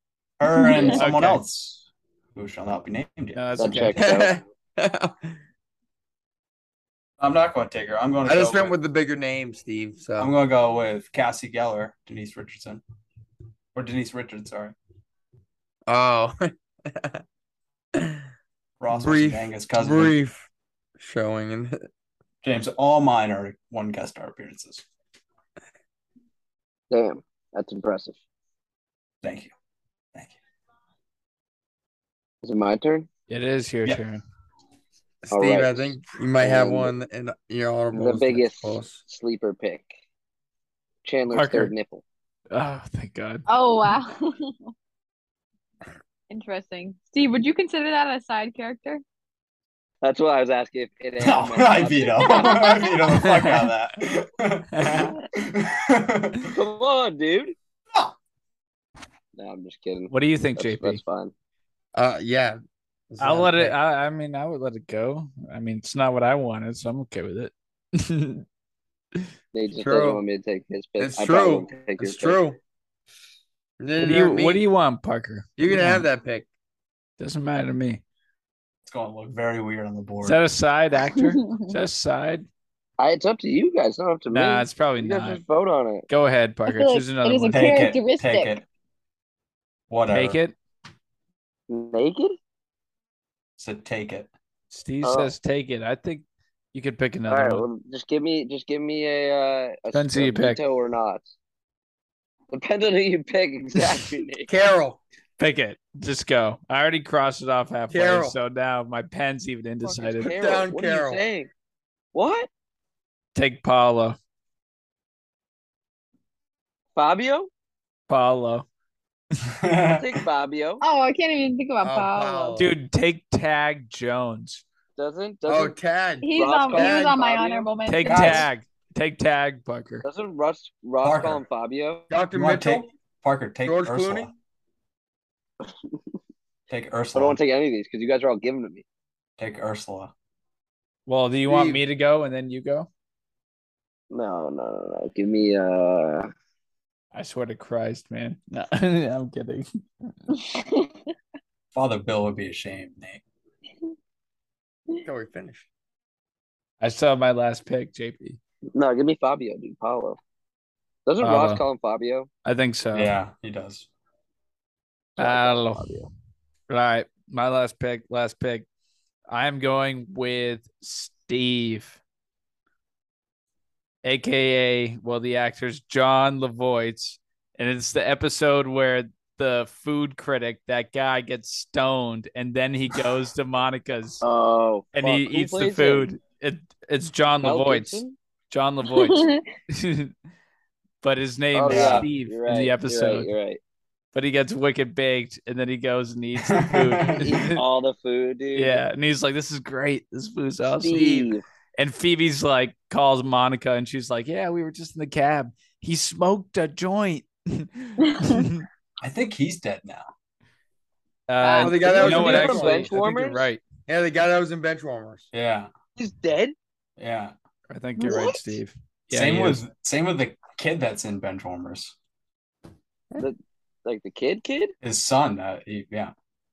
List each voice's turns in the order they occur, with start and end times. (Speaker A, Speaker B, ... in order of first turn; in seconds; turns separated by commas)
Speaker A: 0.4-3.8, Speaker B: 0.6-1.0, Speaker C: 0.9-1.4, Speaker C: 3.4-4.2, Speaker D: 3.6-4.4, Speaker E: 4.0-5.3, Speaker A: 7.2-8.8, Speaker E: 8.2-10.3, Speaker A: 10.2-12.8, Speaker A: 13.8-14.8, Speaker E: 15.9-17.2, Speaker E: 17.9-18.2, Speaker A: 18.8-20.2, Speaker E: 18.9-21.8, Speaker A: 22.4-24.9, Speaker D: 26.9-28.2, Speaker A: 29.2-29.5, Speaker D: 32.4-33.1, Speaker C: 33.3-34.2, Speaker E: 35.2-39.0, Speaker D: 35.3-36.9, Speaker D: 37.9-40.0, Speaker D: 41.0-42.0, Speaker C: 41.3-41.7, Speaker C: 42.5-43.5, Speaker B: 43.5-44.6, Speaker B: 46.3-49.0, Speaker D: 50.0-52.5, Speaker A: 51.2-56.5, Speaker B: 52.2-53.0, Speaker C: 53.2-53.7, Speaker C: 54.7-55.1, Speaker D: 56.5-57.5, Speaker D: 59.4-61.3, Speaker C: 60.1-61.0, Speaker E: 61.9-63.8, Speaker C: 63.2-68.5, Speaker D: 69.5-72.4, Speaker E: 69.7-70.2, Speaker E: 71.0-72.6, Speaker E: 73.8-74.6, Speaker C: 74.0-76.1, Speaker E: 75.6-76.5, Speaker C: 77.2-78.0, Speaker A: 78.8-80.4, Speaker C: 80.2-82.5, Speaker B: 81.2-81.7, Speaker D: 83.0-86.1, Speaker C: 84.3-85.4, Speaker C: 86.1-87.8, Speaker B: 86.7-88.6, Speaker A: 87.5-88.6, Speaker A: 89.9-90.4, Speaker C: 90.1-90.5, Speaker D: 91.7-92.4, Speaker A: 93.6-94.3, Speaker C: 94.7-97.7, Speaker D: 95.0-95.3, Speaker D: 97.3-101.3, Speaker C: 99.9-100.6, Speaker D: 102.5-104.5, Speaker E: 104.5-105.0, Speaker C: 105.4-110.3, Speaker E: 107.9-108.4, Speaker D: 109.9-111.5, Speaker E: 110.3-111.2, Speaker D: 112.1-112.5, Speaker C: 113.3-114.2, Speaker D: 117.0-117.5, Speaker C: 118.1-118.7, Speaker A: 119.6-120.1, Speaker D: 120.0-120.8, Speaker B: 120.8-122.6, Speaker E: 121.8-122.7, Speaker C: 122.6-124.6, Speaker D: 125.0-125.8, Speaker E: 125.5-127.2, Speaker B: 126.2-128.5, Speaker D: 126.3-127.7, Speaker C: 127.9-130.1, Speaker A: 128.1-128.5, Speaker D: 130.0-132.1, Speaker A: 131.0-131.4, Speaker E: 132.1-132.9, Speaker A: 132.3-134.3, Speaker E: 133.6-134.3, Speaker D: 135.7-135.9, Speaker A: 136.7-137.4, Speaker D: 137.1-138.8, Speaker A: 139.4-140.1, Speaker C: 141.1-142.9, Speaker E: 141.5-141.8, Speaker D: 144.1-146.3, Speaker C: 147.1-149.7, Speaker B: 150.3-151.0, Speaker A: 151.7-153.2, Speaker E: 155.1-155.7, Speaker C: 156.8-158.4, Speaker D: 158.8-160.2, Speaker D: 161.1-162.3, Speaker C: 161.2-161.6, Speaker C: 162.4-163.1, Speaker A: 162.9-163.9, Speaker D: 165.2-166.1, Speaker C: 165.2-166.0, Speaker C: 166.7-168.7, Speaker C: 169.3-172.0, Speaker C: 174.0-184.2, Speaker D: 184.2-186.1, Speaker C: 184.9-190.1, Speaker D: 187.4-188.2, Speaker B: 188.9-189.4, Speaker C: 191.0-193.3, Speaker D: 191.5-193.6, Speaker A: 191.7-192.1, Speaker C: 194.1-197.6, Speaker A: 196.4-197.3, Speaker D: 197.2-198.8, Speaker C: 198.6-208.7, Speaker D: 200.8-201.4, Speaker B: 208.1-208.4, Speaker A: 209.0-210.1, Speaker C: 211.3-213.6, Speaker B: 211.4-211.9, Speaker E: 211.6-213.1, Speaker D: 211.8-213.5, Speaker E: 213.9-215.3, Speaker A: 215.3-215.7, Speaker D: 216.0-216.6, Speaker A: 217.0-217.3, Speaker C: 217.7-219.6, Speaker B: 218.0-218.3, Speaker D: 218.1-218.4, Speaker A: 219.1-221.9, Speaker D: 223.2-224.7, Speaker A: 224.8-226.1